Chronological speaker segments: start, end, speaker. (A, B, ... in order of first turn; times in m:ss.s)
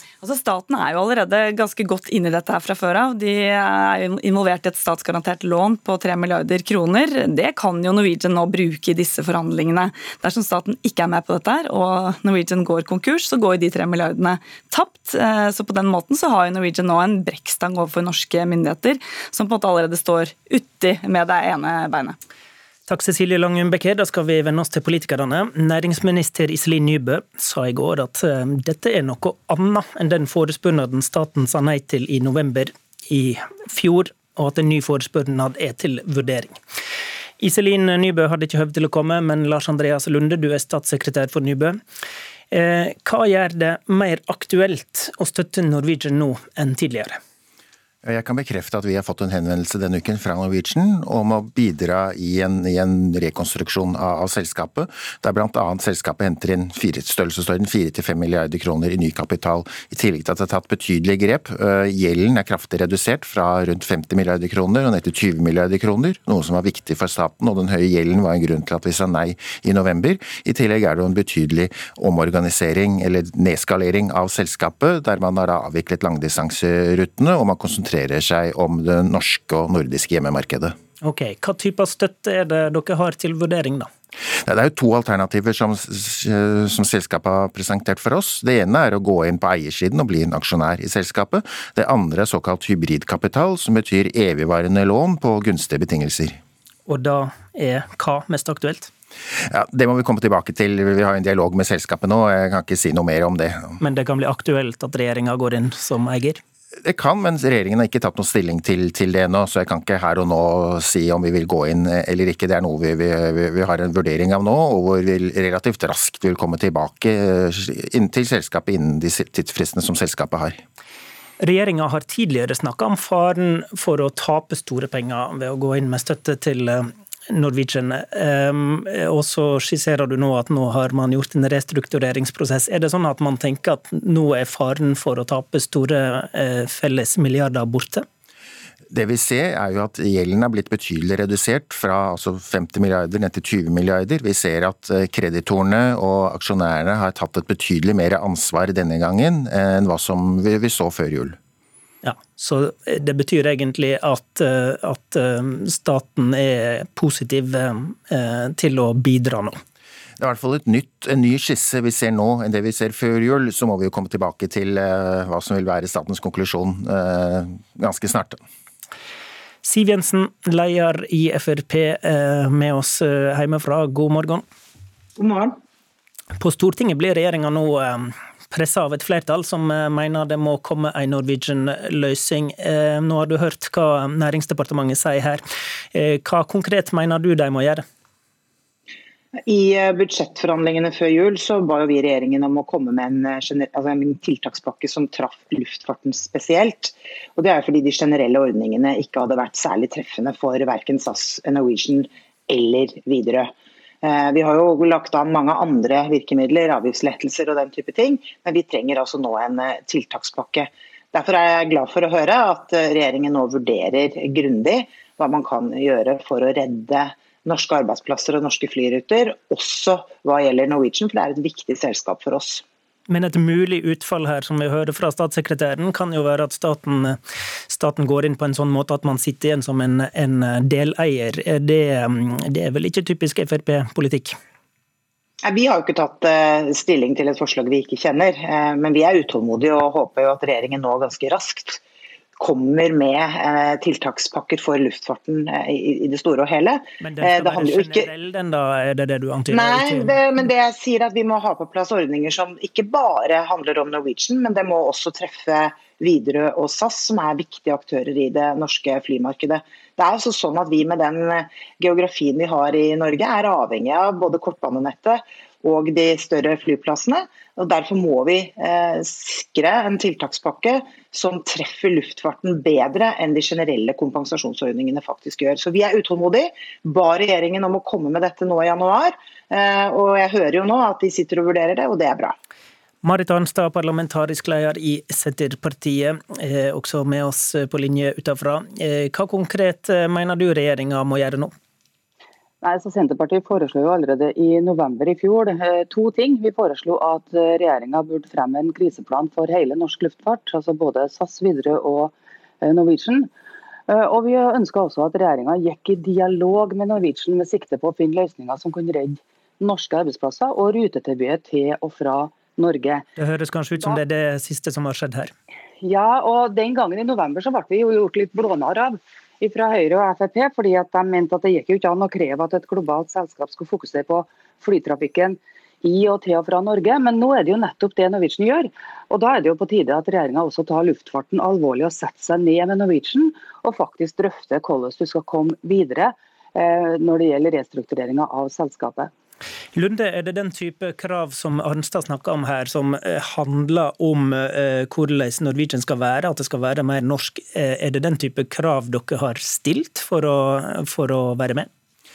0:00.2-0:22.2 A
0:22.9-0:36.6 B
0:37.4-0:41.8 B
0:42.5-0:47.2 B
0:48.0-1:20.7 C
1:21.0-1:23.9 B
1:24.4-1:36.4 C
1:36.8-1:38.9 B
1:39.5-1:43.8 C
1:43.8-1:46.4 B
1:46.8-2:00.6 C
2:01.4-2:18.0 B
2:18.9-2:31.4 C
2:32.0-2:39.6 B
2:40.2-2:48.4 C
2:49.6-2:54.4 B
2:55.2-2:55.6 D
2:56.4-3:05.4 B
3:05.9-3:07.8 B
3:09.4-3:23.5 D
3:24.0-3:42.6 D
3:43.1-3:54.4 B
3:55.4-4:01.8 D
4:02.4-4:08.1 D
4:07.0-4:10.2 B
4:09.5-4:42.4 D
4:43.0-4:51.5 B
4:52.6-5:03.3 E
5:03.9-5:13.0 E
5:13.2-5:15.3 B
5:15.8-5:39.1 E
5:39.7-5:51.7 B